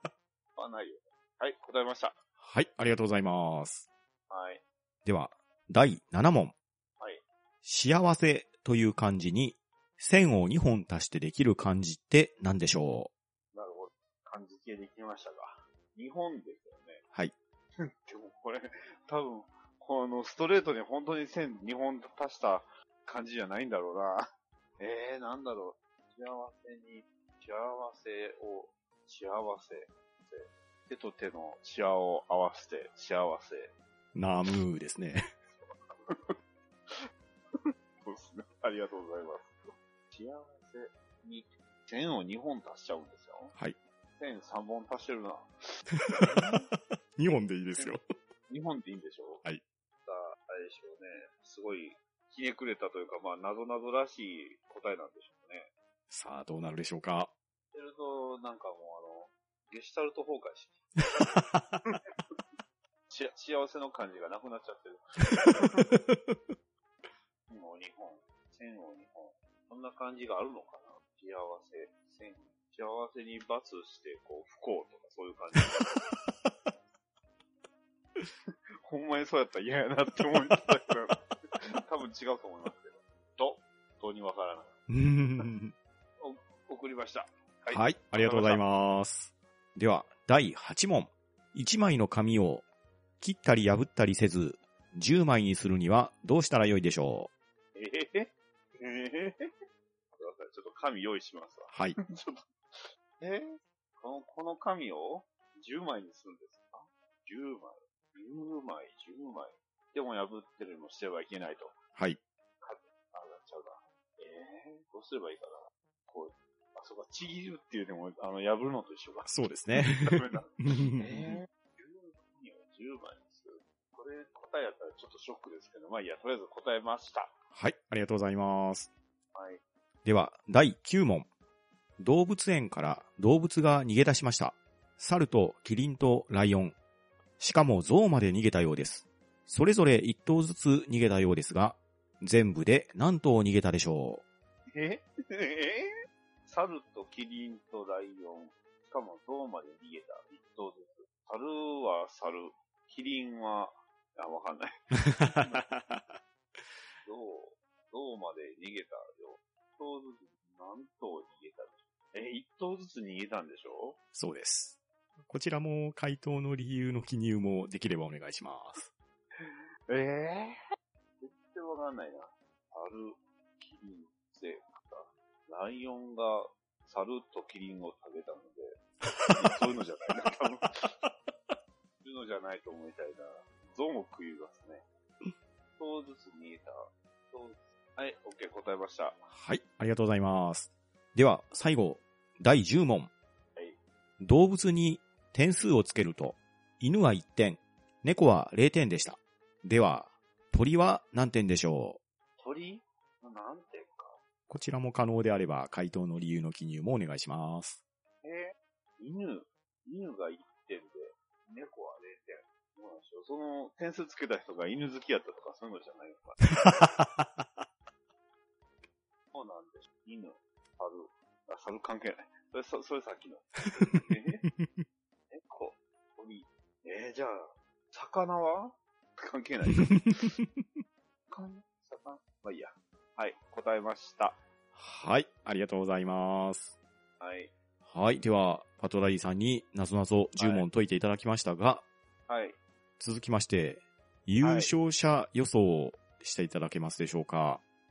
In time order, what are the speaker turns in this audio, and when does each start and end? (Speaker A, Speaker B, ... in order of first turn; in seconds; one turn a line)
Speaker A: 0.6-2.2
Speaker B: 2.4-3.9
Speaker A: 4.3-4.6
Speaker B: 5.0-6.5
Speaker B: 7.6-13.1
Speaker A: 13.5-17.0
Speaker A: 17.8-24.3
Speaker A: 24.8-33.7
Speaker B: 34.1-35.3
Speaker A: 35.6-36.4
Speaker A: 36.9-39.6
Speaker A: 40.1-43.6
Speaker A: 44.2-45.5
Speaker B: 46.0-46.5
Speaker A: 46.2-46.7
Speaker B: 47.2-48.0
Speaker A: 48.5-49.5
Speaker A: 50.0-55.7
Speaker B: 56.1-57.3
Speaker A: 57.7-61.3
Speaker A: 63.1-65.9
Speaker B: 65.6-66.2
Speaker A: 67.5-76.0
Speaker A: 78.8-81.2
Speaker A: 81.9-84.8
Speaker B: 84.9-85.7
Speaker A: 86.2-88.6
Speaker B: 87.7-92.7
Speaker B: 93.2-97.3
Speaker A: 97.8-99.5
Speaker A: 100.1-111.8
Speaker B: 101.7-102.0
Speaker A: 112.6-127.3
Speaker B: 119.2-121.4
Speaker B: 127.5-128.9
Speaker A: 129.3-129.6
Speaker B: 130.1-131.3
Speaker B: 132.0-136.8
Speaker B: 137.4-144.2
Speaker A: 144.8-145.9
Speaker A: 146.5-155.6
Speaker B: 155.2-156.2
Speaker A: 157.1-164.0
Speaker B: 164.1-168.9
Speaker A: 169.4-170.6
Speaker A: 171.2-178.8
Speaker A: 179.3-180.9
Speaker A: 182.0-184.8
Speaker A: 185.8-189.2
Speaker B: 189.3-193.1
Speaker B: 194.2-202.0
Speaker A: 202.4-204.2
Speaker B: 204.5-207.8
Speaker A: 208.2-216.9
Speaker B: 216.8-217.4
Speaker A: 219.3-224.5
Speaker B: 223.9-224.8
Speaker A: 225.3-230.3
Speaker B: 229.7-230.7
Speaker A: 231.3-234.4
Speaker B: 234.8-236.8
Speaker A: 237.2-237.5
Speaker B: 237.9-241.9
Speaker A: 240.4-240.7
Speaker A: 242.3-242.6
Speaker B: 243.0-247.6
Speaker A: 244.4-244.7